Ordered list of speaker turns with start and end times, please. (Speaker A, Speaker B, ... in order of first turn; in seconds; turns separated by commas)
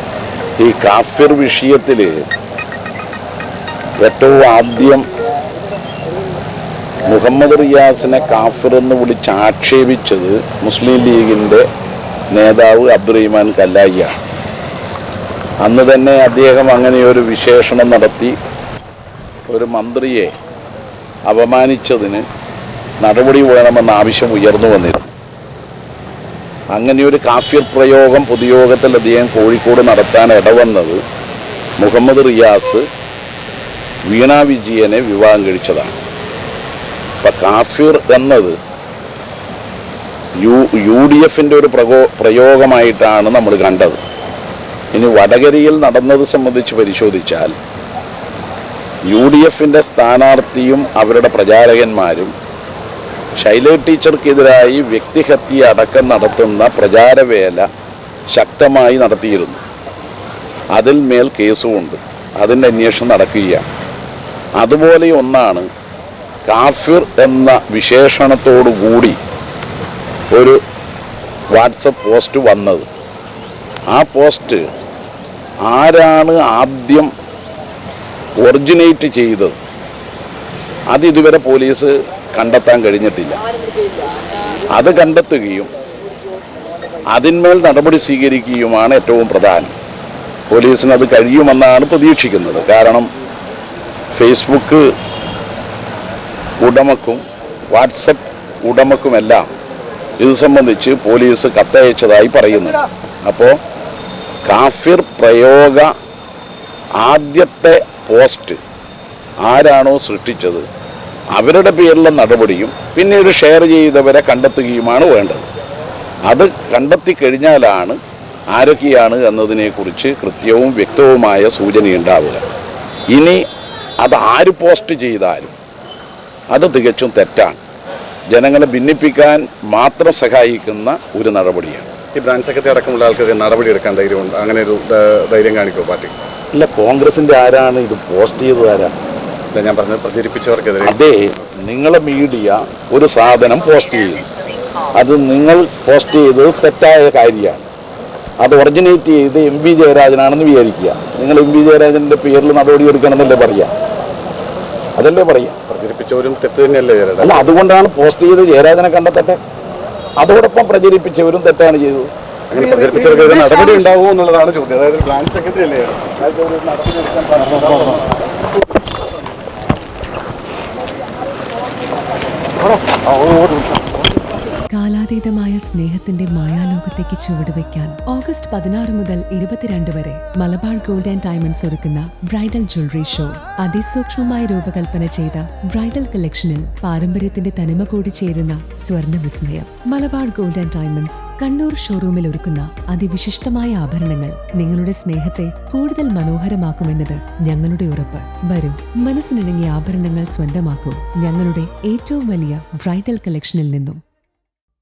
Speaker A: 0.6-2.1, Speaker A: 4.0-5.0, Speaker A: 7.0-11.7, Speaker A: 12.3-14.2, Speaker A: 15.6-18.4, Speaker A: 19.5-20.3, Speaker A: 21.3-22.2, Speaker A: 23.0-25.1, Speaker A: 26.7-31.0, Speaker A: 31.8-32.8, Speaker A: 34.1-36.0, Speaker A: 37.2-38.6, Speaker A: 40.4-44.0, Speaker A: 44.9-47.5, Speaker A: 49.1-52.3, Speaker A: 53.4-57.7, Speaker A: 58.3-59.6, Speaker A: 60.7-63.6, Speaker A: 64.6-65.7, Speaker A: 66.5-69.2, Speaker A: 70.3-70.6, Speaker A: 71.5-72.9, Speaker A: 73.9-74.7, Speaker A: 75.7-77.1, Speaker A: 78.4-79.6, Speaker A: 80.9-83.4, Speaker A: 84.7-85.7, Speaker A: 87.1-89.7, Speaker A: 90.5-93.1, Speaker A: 94.1-94.8, Speaker A: 96.6-99.5, Speaker A: 100.2-103.5, Speaker A: 104.5-105.9, Speaker A: 107.0-108.6, Speaker A: 109.4-110.7, Speaker A: 111.3-115.5, Speaker A: 116.3-118.0, Speaker A: 118.5-122.4, Speaker A: 123.1-123.4, Speaker A: 124.0-125.5, Speaker A: 126.5-127.6, Speaker A: 128.3-131.9, Speaker B: 132.2-136.1, Speaker A: 136.5-138.9, Speaker B: 139.5-141.0, Speaker A: 140.8-144.2, Speaker A: 145.0-147.7, Speaker A: 148.4-153.7, Speaker A: 155.0-155.6, Speaker B: 155.7-157.5, Speaker A: 157.2-159.4, Speaker A: 160.2-162.1, Speaker B: 162.5-167.9, Speaker C: 174.7-204.0